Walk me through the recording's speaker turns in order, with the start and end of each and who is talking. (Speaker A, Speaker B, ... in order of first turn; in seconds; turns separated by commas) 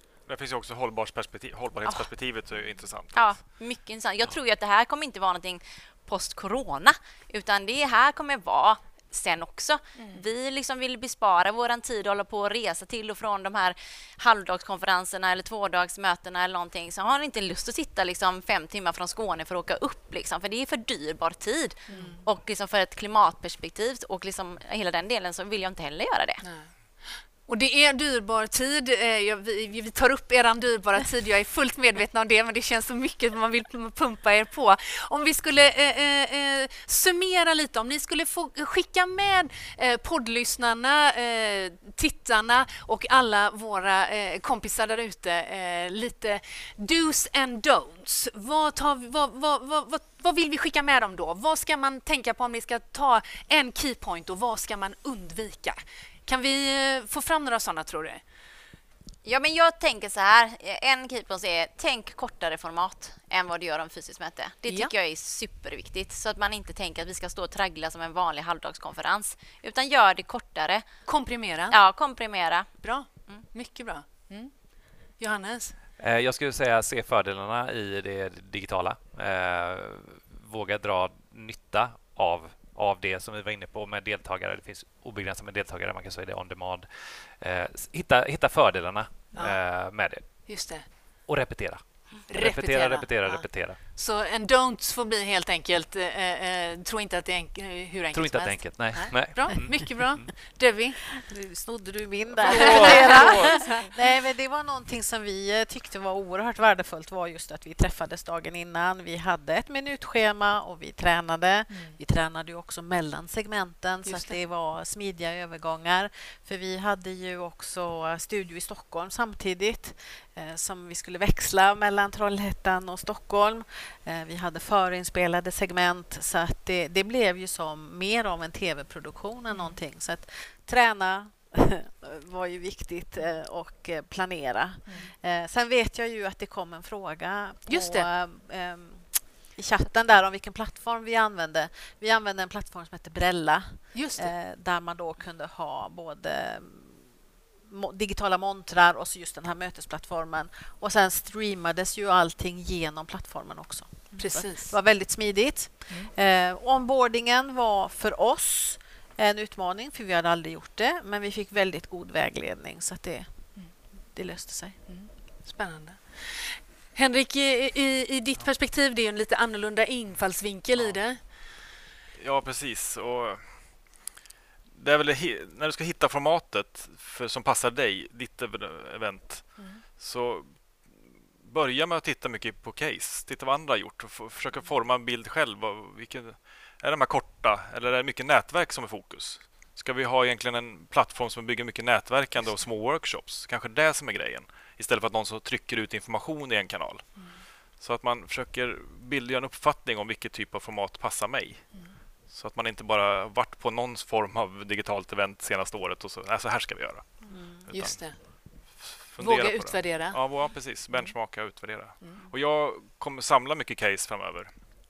Speaker A: 0.3-3.5, Speaker B: 3.1-26.4, Speaker C: 9.9-10.2, Speaker C: 21.9-22.2, Speaker C: 26.4-58.2, Speaker B: 59.2-70.9, Speaker C: 71.1-71.8, Speaker B: 71.7-72.7, Speaker C: 72.8-74.5, Speaker C: 75.2-75.7, Speaker D: 76.0-90.7, Speaker C: 89.3-90.9, Speaker D: 91.3-93.8, Speaker C: 92.3-101.0, Speaker D: 98.1-100.3, Speaker E: 101.2-147.1, Speaker C: 102.4-103.8, Speaker A: 102.5-103.7, Speaker D: 102.6-103.2, Speaker C: 111.7-112.0, Speaker C: 114.0-114.4, Speaker C: 129.5-129.8, Speaker C: 137.7-138.1, Speaker C: 143.9-144.3, Speaker E: 147.7-164.8, Speaker C: 154.1-154.8, Speaker C: 164.9-171.2, Speaker A: 172.2-174.1, Speaker A: 174.7-214.6, Speaker C: 179.6-179.8, Speaker E: 207.2-207.7, Speaker C: 207.3-208.4, Speaker C: 209.2-210.2